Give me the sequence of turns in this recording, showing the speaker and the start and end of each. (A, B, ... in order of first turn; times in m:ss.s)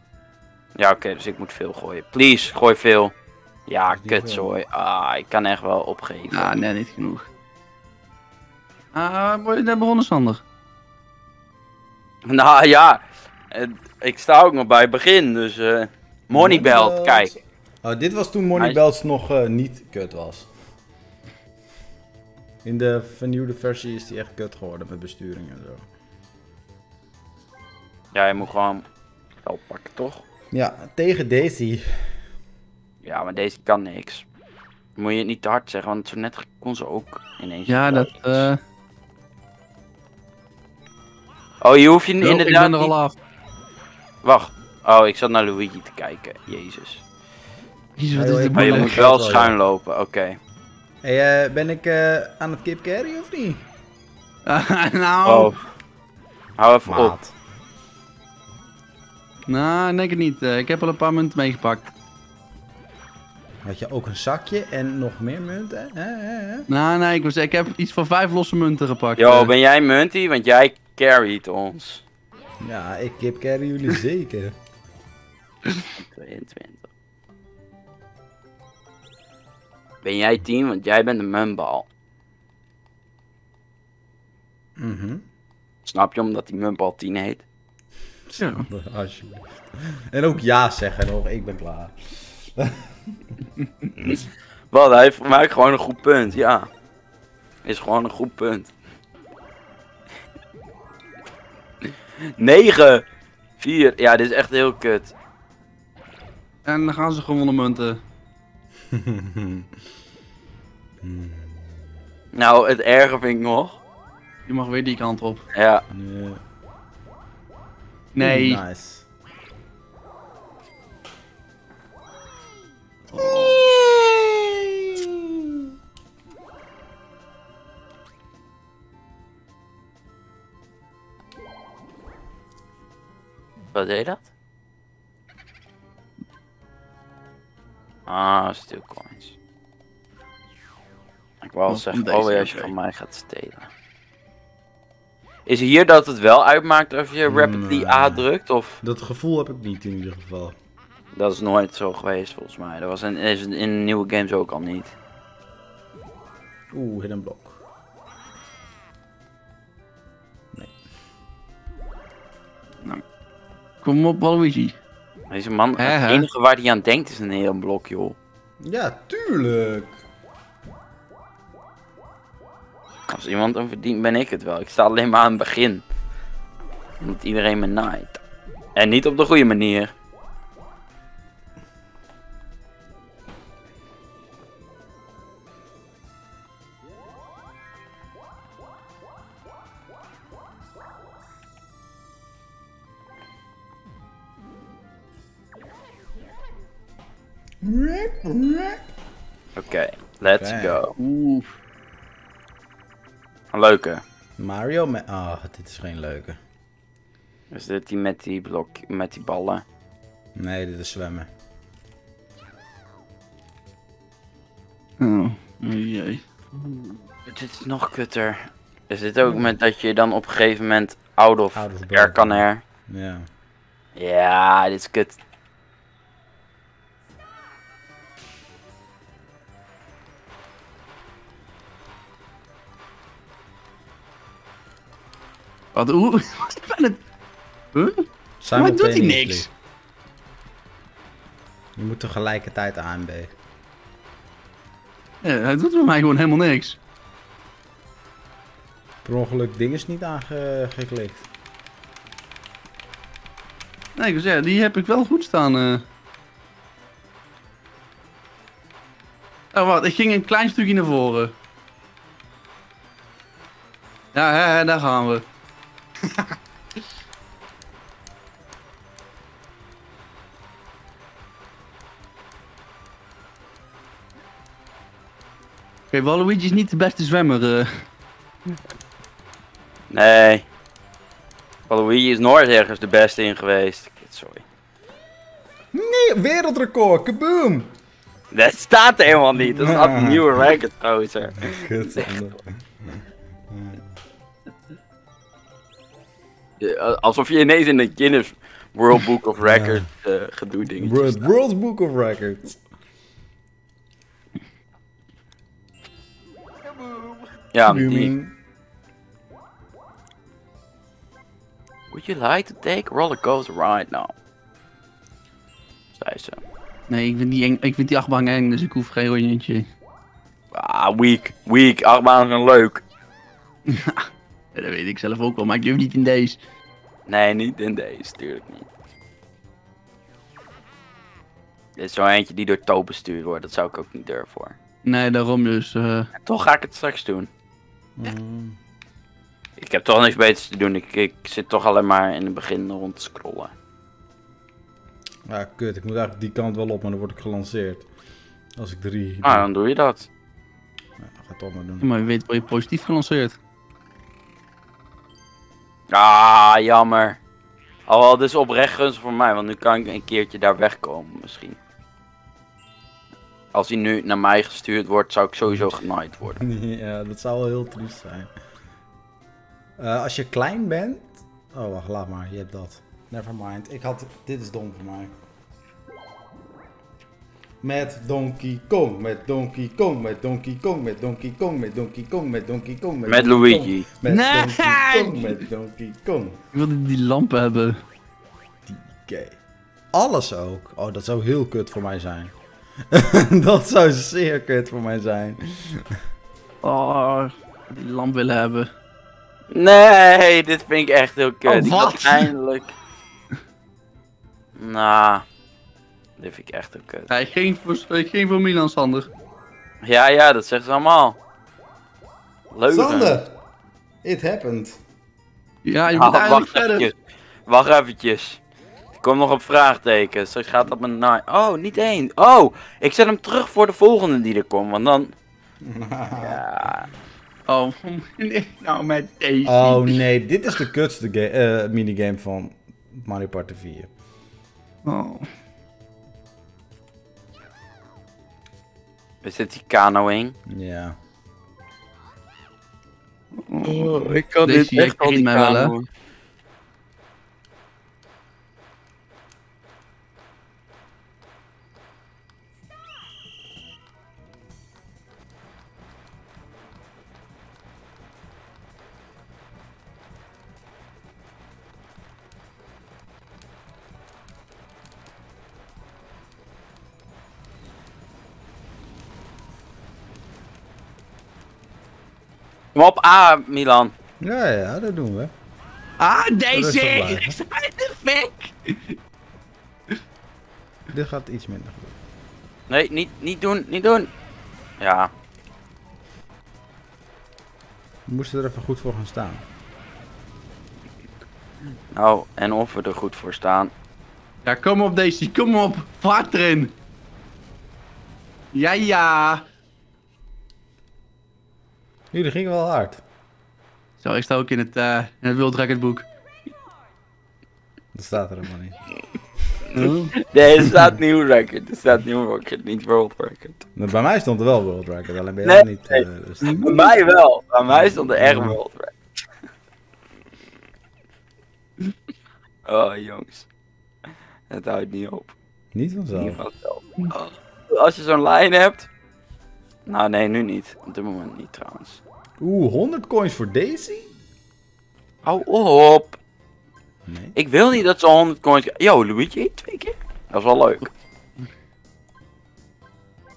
0:00.8-0:03.1 A
0:03.7-0:06.6 A
0:03.9-0:04.5 B
0:06.3-0:07.2 C
0:08.9-0:10.4 C
0:12.2-0:17.3 A
0:16.3-0:20.5 B
0:22.6-0:25.8 B
0:28.1-0:28.9 A
0:29.4-0:30.2 A
0:30.5-0:32.2 B
0:33.0-0:34.2 A
0:35.0-0:38.5 A
0:37.7-0:38.6 C
0:41.6-0:42.9 A
0:42.2-0:43.2 C
0:44.2-0:47.0 A
0:48.0-0:49.0 C
0:48.1-0:49.6 B
0:48.5-0:50.4 A
0:51.0-0:53.7 B
0:54.5-0:55.5 C
0:55.2-0:55.6 A
0:56.6-0:57.2 A
0:56.9-0:57.3 B
0:59.5-1:01.9 C
1:03.6-1:06.7 B
1:06.7-1:09.5 C
1:09.2-1:12.0 A
1:12.6-1:14.6 B
1:16.0-1:16.9 A
1:20.0-1:21.9 A
1:24.8-1:25.2 B
1:25.9-1:27.4 A
1:28.3-1:33.4 B
1:28.4-1:28.7 C
1:34.0-1:36.7 A
1:37.6-1:38.7 A
1:42.3-1:43.0 A
1:43.6-1:45.1 A
1:46.6-1:48.0 C
1:48.9-1:49.7 B
1:51.0-1:51.7 B
1:52.3-1:53.8 A
1:54.5-1:55.4 C
1:55.5-1:55.8 A
1:55.9-1:56.4 B
1:58.1-1:58.6 C
1:58.2-1:59.1 B
2:03.1-2:05.7 B
2:03.1-2:03.6 C
2:13.7-2:14.3 A
2:18.1-2:19.4 A
2:21.4-2:23.7 A
2:21.7-2:22.7 C
2:25.5-2:28.8 A
2:27.3-2:28.3 B
2:28.8-2:30.6 B
2:31.2-2:34.9 A
2:36.7-2:37.6 B
2:43.8-2:44.8 C
2:45.3-2:48.2 A
2:45.8-2:46.3 C
2:48.6-2:50.0 B
2:53.1-2:55.8 A
2:57.0-2:58.2 A
2:58.8-2:59.9 A
3:17.6-3:18.8 B
3:19.6-3:20.9 A
3:20.4-3:20.8 B
3:21.0-3:21.6 C
3:23.5-3:24.0 A
3:24.4-3:26.4 B
3:27.5-3:29.6 A
3:30.4-3:31.3 B
3:35.0-3:36.2 C
3:37.3-3:42.6 A
3:41.5-3:43.3 B
3:44.0-3:45.2 A
3:55.7-3:57.0 C
3:57.7-3:59.5 C
3:58.4-3:59.5 B
4:01.8-4:03.3 B
4:05.2-4:06.8 C
4:09.0-4:11.3 B
4:14.0-4:15.8 C
4:19.5-4:21.3 C
4:24.1-4:25.2 C
4:35.9-4:37.7 C
4:39.9-4:40.5 A
4:41.7-4:44.4 A
4:45.7-4:47.7 B
4:48.3-4:52.2 A
4:49.4-4:50.4 B
4:51.4-4:53.9 B
4:56.6-5:01.3 A
4:59.4-4:59.8 B
5:00.8-5:02.6 B
5:07.5-5:08.1 A
5:07.7-5:08.4 B
5:11.9-5:14.1 A
5:16.0-5:16.4 A
5:16.9-5:19.7 C
5:20.5-5:22.8 A
5:23.7-5:26.4 C
5:27.1-5:28.7 A
5:31.8-5:34.6 A
5:34.8-5:36.1 C
5:36.2-5:37.3 A
5:38.0-5:38.6 B
5:39.6-5:43.5 A
5:45.3-5:47.9 B
5:48.6-5:49.5 B
5:49.2-5:50.1 A
5:51.0-5:51.9 B
5:51.8-5:53.4 C
5:55.9-5:57.2 A
5:57.9-6:01.6 A
6:03.5-6:06.4 A
6:05.5-6:05.8 B
6:06.4-6:08.3 B
6:09.8-6:15.1 B
6:17.6-6:26.4 B
6:23.1-6:23.9 A
6:24.1-6:25.4 C
6:26.5-6:27.8 C
6:28.7-6:29.4 B
6:29.9-6:32.3 B
6:32.9-6:36.0 B
6:36.6-6:38.7 C
6:39.5-6:42.7 A
6:41.5-6:42.1 C
6:41.6-6:42.1 B
6:44.6-6:45.2 A
6:46.2-6:47.1 A
6:47.1-6:49.1 C
6:49.8-6:51.2 A
6:52.5-6:53.2 A
6:52.7-6:53.4 B
6:54.0-6:54.8 B
6:55.7-6:56.9 C
6:55.9-6:57.0 A
6:57.5-6:58.4 A
6:59.0-7:05.1 A
7:05.6-7:06.4 B
7:06.2-7:06.9 A
7:07.5-7:10.0 C
7:09.4-7:13.9 B
7:14.8-7:15.3 C
7:19.2-7:20.4 A
7:20.5-7:21.0 B
7:23.4-7:25.7 C
7:23.6-7:25.9 A
7:52.8-7:53.9 A
7:54.2-7:55.3 B
7:56.0-7:59.0 C
7:56.5-7:57.4 B
8:00.9-8:02.0 B
8:02.7-8:04.1 A
8:04.8-8:05.1 A
8:08.1-8:09.4 B
8:11.9-8:13.7 A
8:14.4-8:16.7 C
8:18.5-8:19.4 C
8:22.1-8:23.0 B
8:24.0-8:26.1 C
8:27.9-8:28.8 B
8:29.7-8:30.1 C
8:29.7-8:33.6 A
8:33.8-8:36.9 B
8:35.4-8:38.9 A
8:36.4-8:36.7 C
8:37.7-8:38.6 B
8:42.7-8:43.5 A
8:44.5-8:45.3 A
8:45.7-8:46.4 B
8:46.1-8:48.9 A
8:49.9-8:52.0 A
8:52.4-8:54.1 B
8:55.2-8:56.2 A
8:57.1-8:57.4 B
8:57.4-9:00.9 A